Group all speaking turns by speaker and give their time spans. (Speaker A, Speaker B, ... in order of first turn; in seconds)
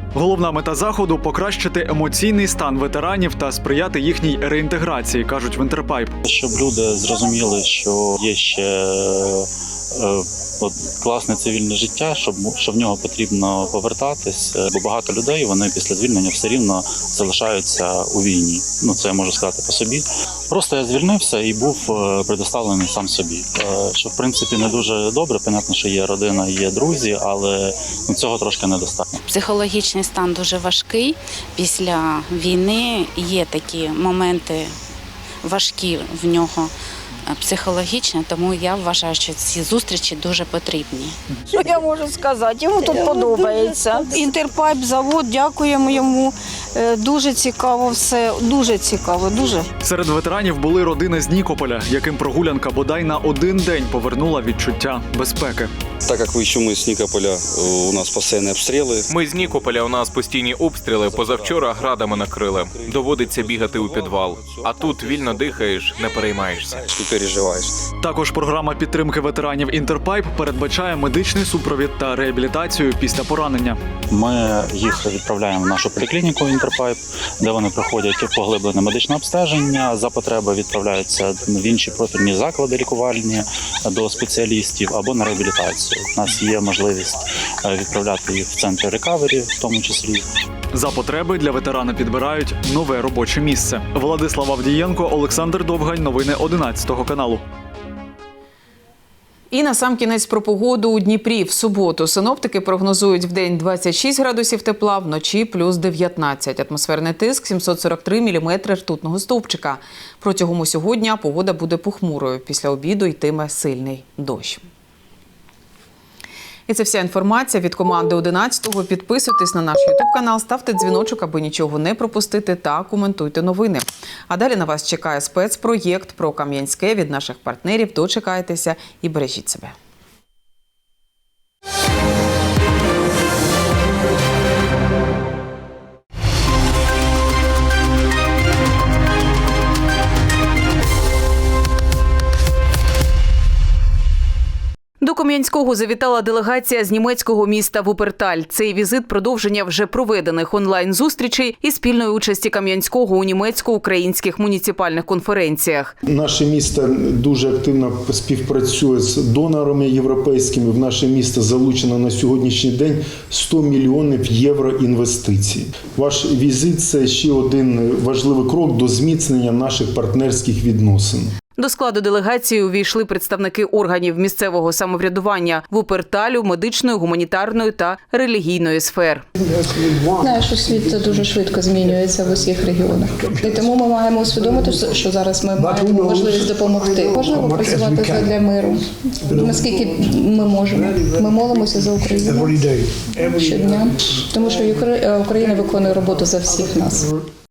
Speaker A: 0.1-6.2, 49.8-55.7, 68.0-73.8, 90.7-97.4
Speaker B: 6.2-29.2, 74.1-90.2
Speaker C: 29.2-34.7, 35.4-36.7, 37.3-41.1
Speaker D: 41.5-49.7
Speaker E: 56.0-59.0, 66.9-67.8
Speaker F: 59.1-66.9
Speaker G: 99.5-114.6, 116.7-129.7, 145.0-155.9, 171.6-179.2
Speaker H: 156.1-171.3
Speaker I: 180.2-192.6, 193.1-197.1